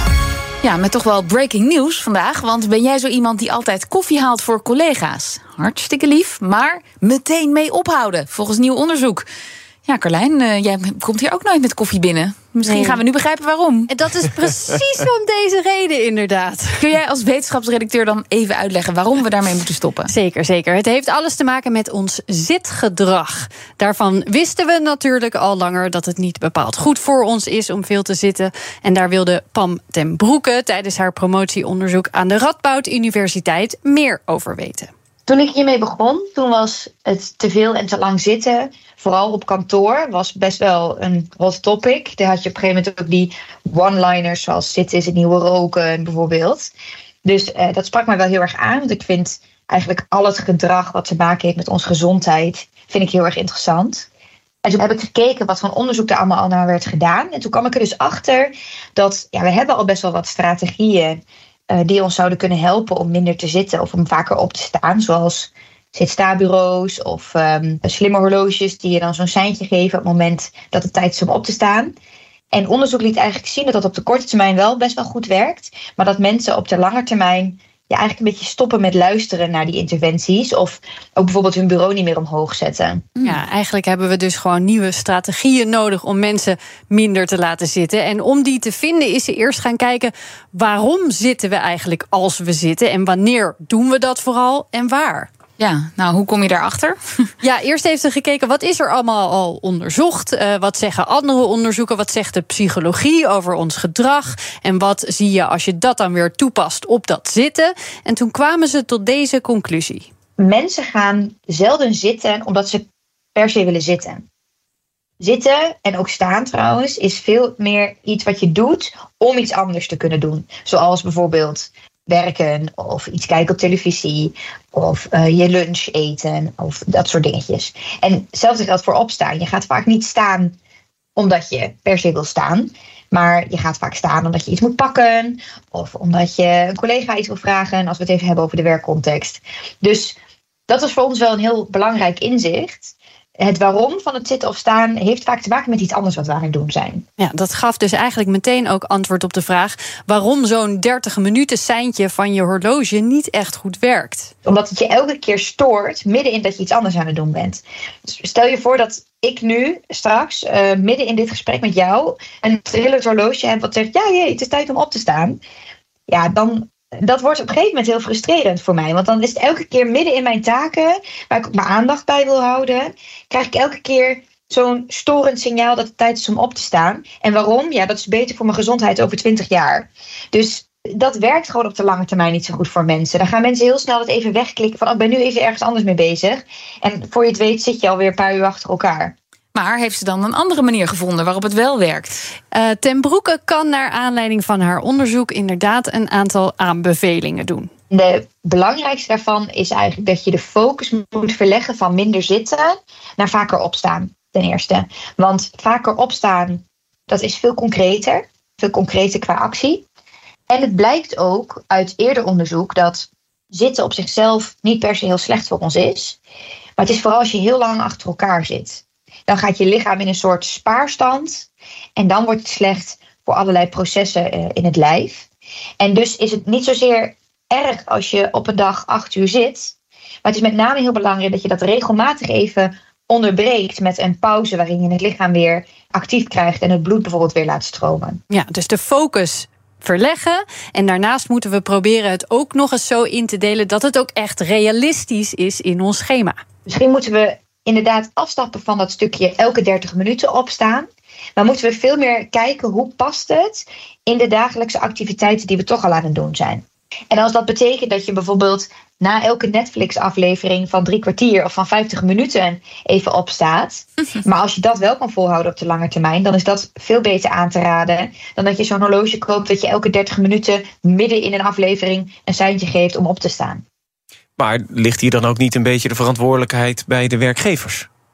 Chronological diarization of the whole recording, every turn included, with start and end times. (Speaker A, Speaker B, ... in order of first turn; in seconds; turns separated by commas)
Speaker A: 0.6-9.3, Speaker A: 9.9-13.9, Speaker B: 12.6-13.0, Speaker B: 13.9-16.8, Speaker A: 16.8-20.1, Speaker B: 20.1-34.9, Speaker C: 35.3-46.7, Speaker C: 47.2-54.1, Speaker C: 54.6-71.9, Speaker C: 72.5-83.1, Speaker B: 83.2-95.3, Speaker A: 95.6-97.2, Speaker B: 97.4-110.1, Speaker C: 110.4-112.8, Speaker C: 113.3-114.2, Speaker C: 115.2-130.6, Speaker C: 131.2-140.2, Speaker C: 140.7-147.1, Speaker B: 147.2-154.3, Speaker C: 154.4-165.4, Speaker C: 166.1-189.2, Speaker A: 189.5-192.2, Speaker B: 192.5-197.7, Speaker C: 197.9-209.9, Speaker C: 210.5-216.2, Speaker C: 216.8-225.3, Speaker C: 225.8-238.2, Speaker B: 238.3-246.4, Speaker C: 246.7-273.6, Speaker D: 274.4-277.9